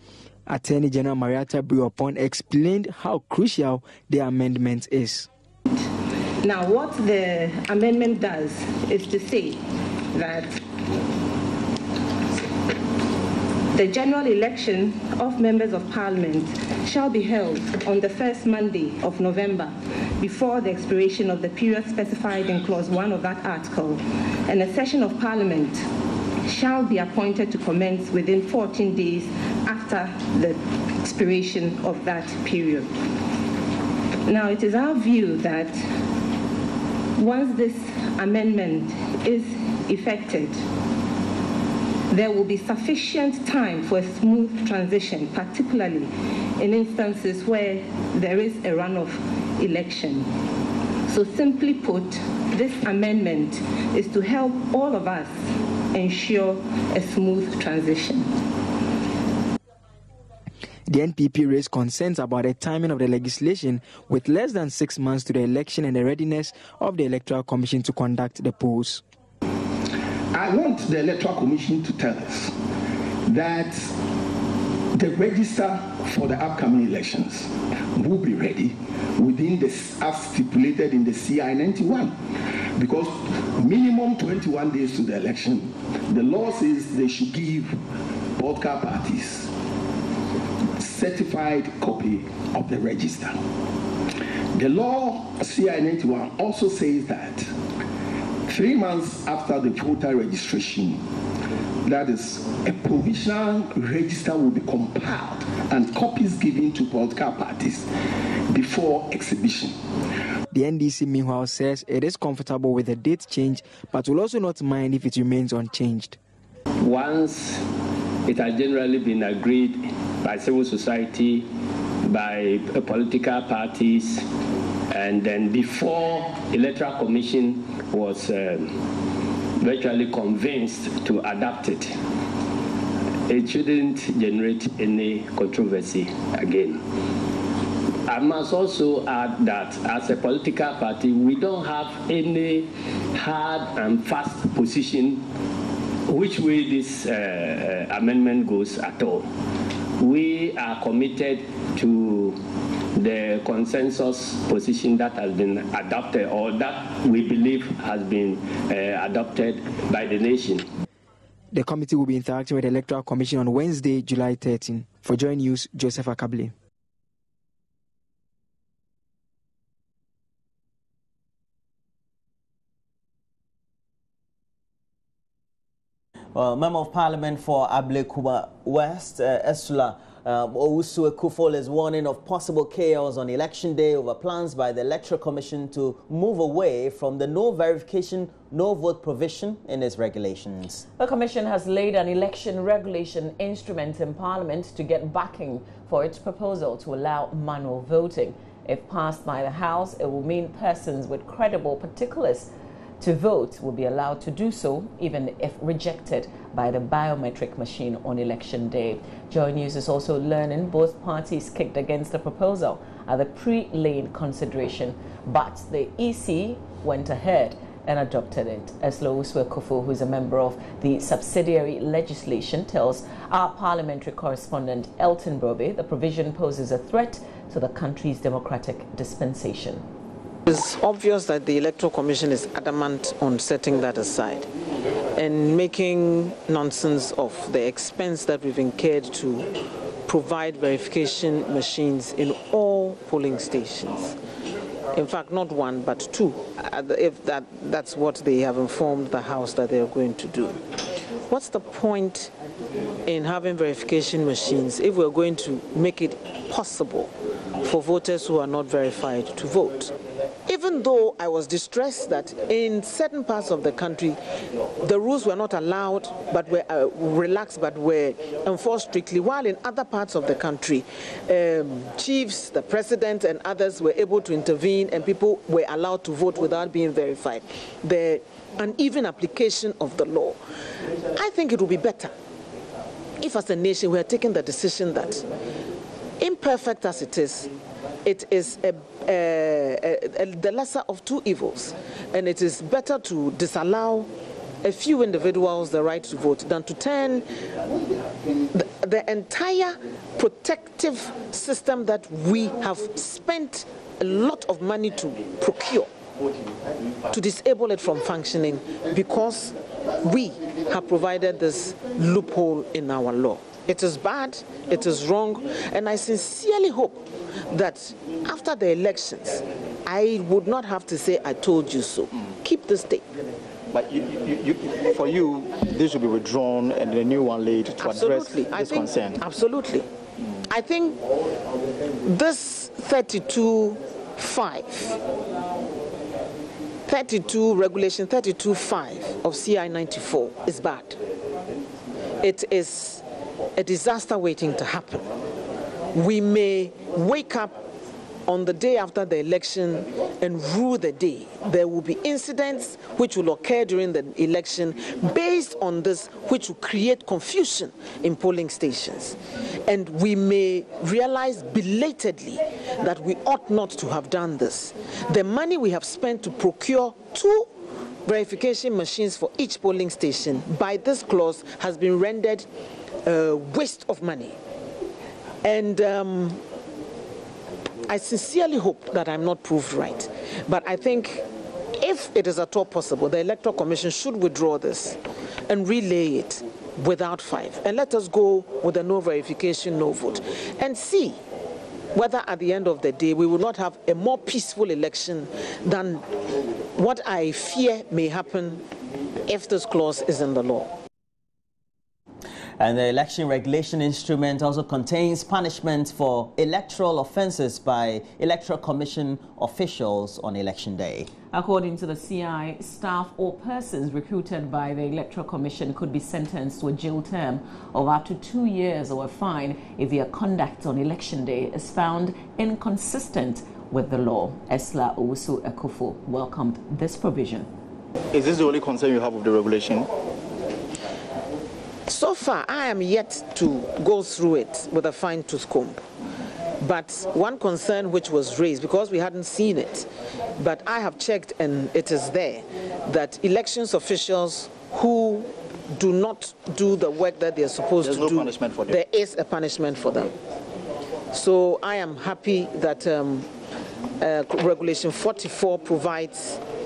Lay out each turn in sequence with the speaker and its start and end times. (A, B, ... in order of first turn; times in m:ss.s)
0:00.5-0:05.3 A
0:06.4-0:10.6 B
0:13.7-0:25.9 B
0:26.4-0:32.9 B
0:34.3-0:35.8 B
0:37.2-0:40.6 B
0:42.1-0:50.3 B
0:51.1-0:58.3 B
1:00.9-1:09.0 A
1:10.3-1:12.6 C
1:13.3-1:14.0 C
1:14.9-1:22.2 C
1:22.8-1:27.8 C
1:28.4-1:29.5 C
1:30.8-1:33.4 C
1:34.5-1:37.5 C
1:38.5-1:41.0 C
1:41.8-1:47.9 C
1:48.5-1:49.8 C
1:50.5-1:56.2 A
1:56.8-1:57.6 D
1:58.2-2:01.5 D
2:02.0-2:04.3 D
2:04.9-2:08.8 D
2:09.6-2:12.0 D
2:13.3-2:16.8 D
2:18.1-2:25.2 D
2:26.1-2:29.3 D
2:30.0-2:32.4 D
2:33.0-2:40.7 D
2:41.5-2:46.5 A
2:56.3-3:10.8 E
3:11.0-3:49.8 F
3:50.5-3:54.5 G
3:55.2-3:59.5 G
4:00.1-4:04.2 G
4:04.9-4:10.6 G
4:11.3-4:12.3 G
4:13.1-4:19.9 G
4:20.5-4:24.2 G
4:24.8-4:40.4 G
4:41.1-4:42.1 G
4:43.2-4:45.2 G
4:46.2-4:47.5 G
4:48.0-4:54.1 G
4:54.6-4:57.3 G
4:58.5-5:05.9 G
5:07.1-5:23.0 G
5:23.7-5:29.2 H
5:27.8-5:29.9 G
5:30.5-5:31.0 G
5:32.1-5:35.0 G
5:36.9-5:41.0 G
5:42.2-5:43.0 G
5:43.6-5:45.1 G
5:45.9-5:47.6 G
5:48.3-6:07.5 G
6:08.1-6:12.5 G
6:13.0-6:14.4 G
6:15.4-6:16.4 G
6:17.9-6:21.2 G
6:21.8-6:31.2 G
6:32.0-6:36.1 G
6:36.8-6:38.6 G
6:39.3-6:40.7 G
6:42.6-6:51.1 E
6:51.3-7:07.5 F
7:08.1-7:09.9 H
7:11.9-7:15.8 G
7:16.6-7:19.9 G
7:20.4-7:30.1 G
7:27.8-7:28.8 H
7:31.1-7:33.3 G
7:34.0-7:36.4 G